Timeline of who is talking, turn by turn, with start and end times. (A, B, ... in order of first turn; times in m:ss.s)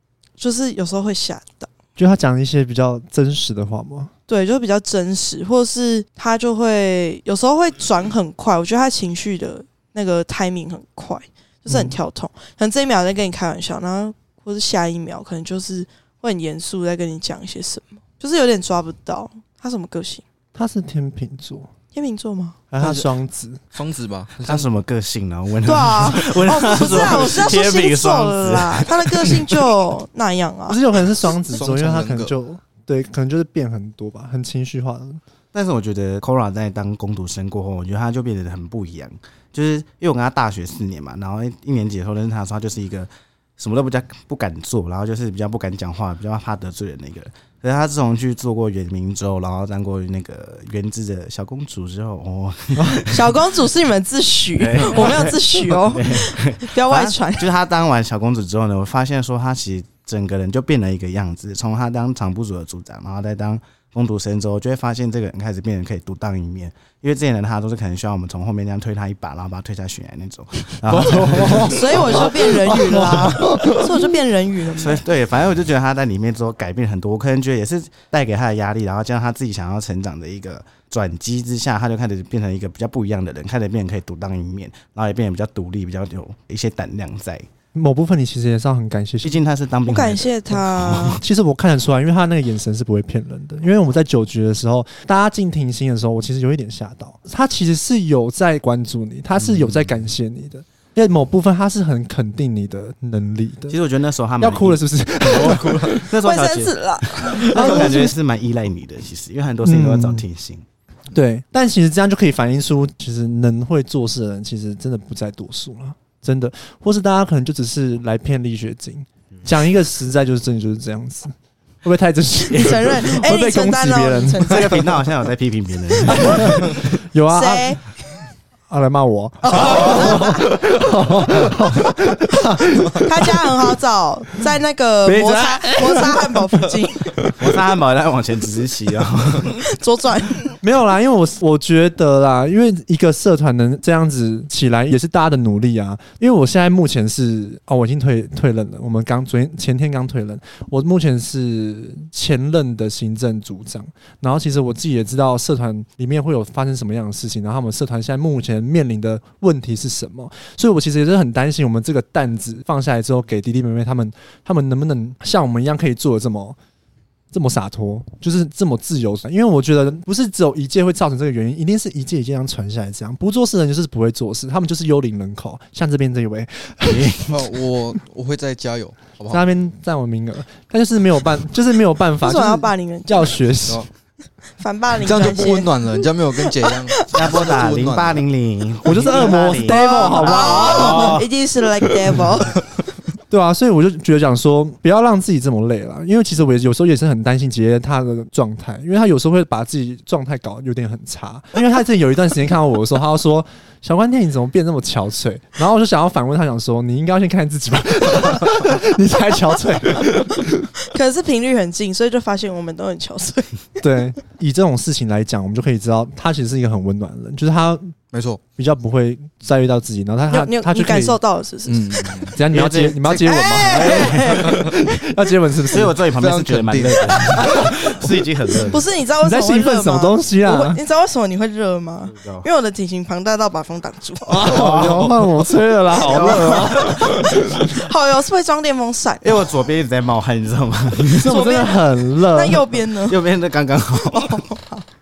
0:00.4-0:01.7 A
0:02.0-0:04.1 B
0:04.3-0:20.2 A
0:11.7-0:12.0 B
0:20.5-0:21.7 B
0:21.9-0:22.6 A
0:22.7-0:23.6 B
0:22.8-0:23.1 C
0:23.7-0:24.7 C
0:24.4-0:29.6 D
0:25.6-0:30.8 A
0:30.7-0:35.2 B
0:31.5-0:32.3 C
0:35.5-0:53.4 D
0:53.0-0:57.5 A
0:54.6-1:12.5 D
1:10.9-1:14.1 B
1:11.5-1:15.0 A
1:14.8-1:27.4 D
1:27.7-1:29.4 B
1:29.2-1:31.2 D
1:29.9-1:31.2 A
1:31.2-1:43.8 B
1:39.4-1:39.9 D
1:43.7-1:50.6 D
1:44.4-1:46.1 B
1:46.2-1:48.1 A
1:47.3-1:48.1 B
1:49.6-1:50.2 B
1:51.1-2:04.4 B
2:02.5-2:04.9 A
2:04.4-2:06.7 D
2:06.1-2:07.8 B
2:07.3-2:07.8 A
2:08.7-2:13.3 B
2:09.4-2:10.6 A
2:13.0-2:17.1 A
2:15.0-2:17.4 B
2:17.4-2:19.6 D
2:19.6-2:20.5 A
2:20.6-2:46.6 B
2:47.3-2:57.2 B
2:56.8-2:57.3 D
2:57.3-2:59.5 C
2:59.3-3:03.9 B
3:02.2-3:03.4 A
3:04.6-3:07.3 A
3:05.0-3:08.2 C
3:07.1-3:11.3 D
3:08.8-3:11.2 B
3:09.6-3:12.6 A
3:13.3-3:30.7 B
3:30.9-3:33.6 A
3:33.8-3:38.0 B
3:38.1-3:38.4 C
3:38.6-3:41.2 B
3:40.3-3:42.2 A
3:41.7-3:42.4 C
3:42.3-3:45.9 B
3:42.5-3:44.4 D
3:43.1-3:44.7 A
3:45.7-3:48.9 D
3:46.2-3:47.5 C
3:47.4-3:47.8 B
3:48.6-3:54.4 A
3:49.2-3:50.8 B
3:52.1-3:52.5 D
3:54.2-3:57.7 B
3:54.4-3:55.2 D
3:56.0-3:57.0 D
3:56.5-3:59.4 A
3:59.2-4:01.4 D
4:01.1-4:02.7 B
4:01.2-4:03.2 A
4:03.1-4:04.4 D
4:04.1-4:04.8 A